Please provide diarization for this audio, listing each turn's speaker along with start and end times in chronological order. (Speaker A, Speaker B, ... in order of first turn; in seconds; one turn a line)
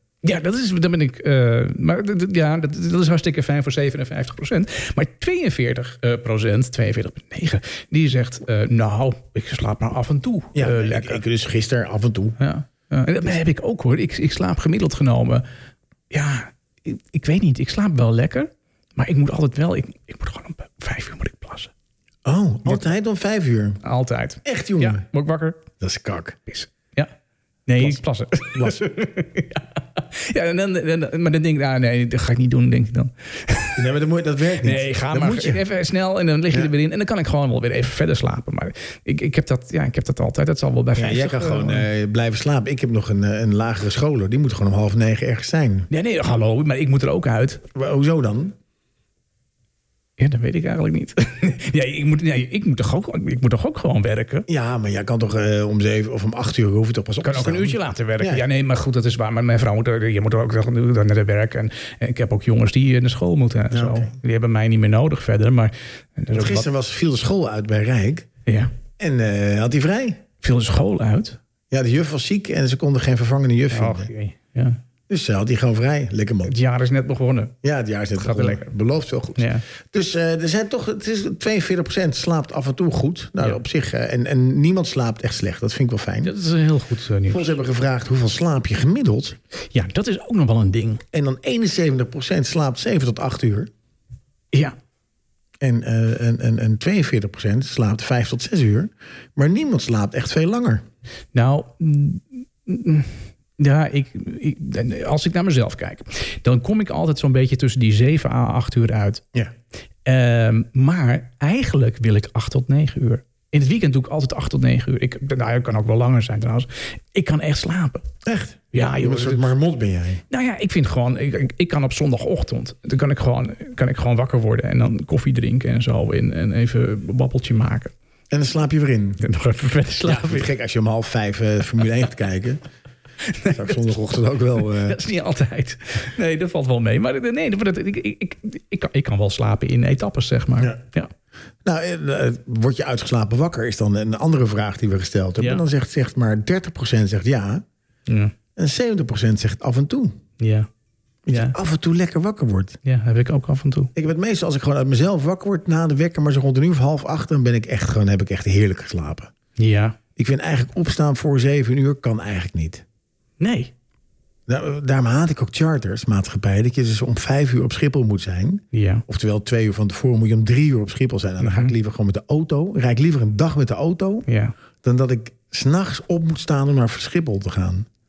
Speaker A: 0.2-11.2
Speaker B: 10.6-12.4
Speaker A: 12.4-15.4
Speaker A: 16.1-21.7
Speaker B: 22.2-23.8
Speaker A: 23.8-25.6
Speaker B: 24.4-25.0
Speaker B: 25.8-26.4
Speaker A: 26.5-27.1
Speaker A: 27.7-33.9
Speaker B: 28.5-28.9
Speaker B: 33.8-35.6
Speaker A: 34.6-41.9
Speaker B: 41.0-45.9
Speaker A: 45.9-47.6
Speaker B: 47.7-48.5
Speaker A: 50.2-54.5
Speaker B: 54.5-58.5
Speaker A: 57.2-66.7
Speaker B: 63.7-64.1
Speaker B: 66.3-68.3
Speaker A: 68.5-68.7
Speaker B: 69.0-70.2
Speaker A: 70.4-71.4
Speaker B: 71.7-74.1
Speaker A: 73.7-74.8
Speaker B: 75.1-76.5
Speaker A: 76.5-77.5
Speaker B: 77.6-86.3
Speaker A: 78.2-78.7
Speaker A: 79.4-79.6
Speaker A: 86.2-87.5
Speaker B: 87.3-89.4
Speaker A: 89.7-91.0
Speaker B: 91.1-93.7
Speaker B: 95.6-100.8
Speaker A: 101.3-109.2
Speaker A: 110.0-118.1
Speaker B: 118.2-120.2
Speaker A: 118.7-119.5
Speaker A: 120.3-127.9
Speaker B: 128.3-129.2
Speaker A: 129.2-130.5
Speaker B: 130.0-132.6
Speaker A: 133.3-133.9
Speaker B: 133.5-135.0
Speaker A: 134.6-141.1
Speaker B: 141.6-147.6
Speaker A: 148.1-148.3
Speaker B: 148.6-150.2
Speaker A: 150.4-150.7
Speaker B: 151.3-152.8
Speaker A: 151.3-151.6
Speaker A: 152.8-153.9
Speaker B: 153.9-159.3
Speaker A: 159.6-160.0
Speaker B: 160.2-162.8
Speaker A: 163.4-163.7
Speaker B: 164.5-174.3
Speaker A: 168.7-169.0
Speaker A: 171.4-171.7
Speaker A: 174.3-174.6
Speaker B: 174.8-177.9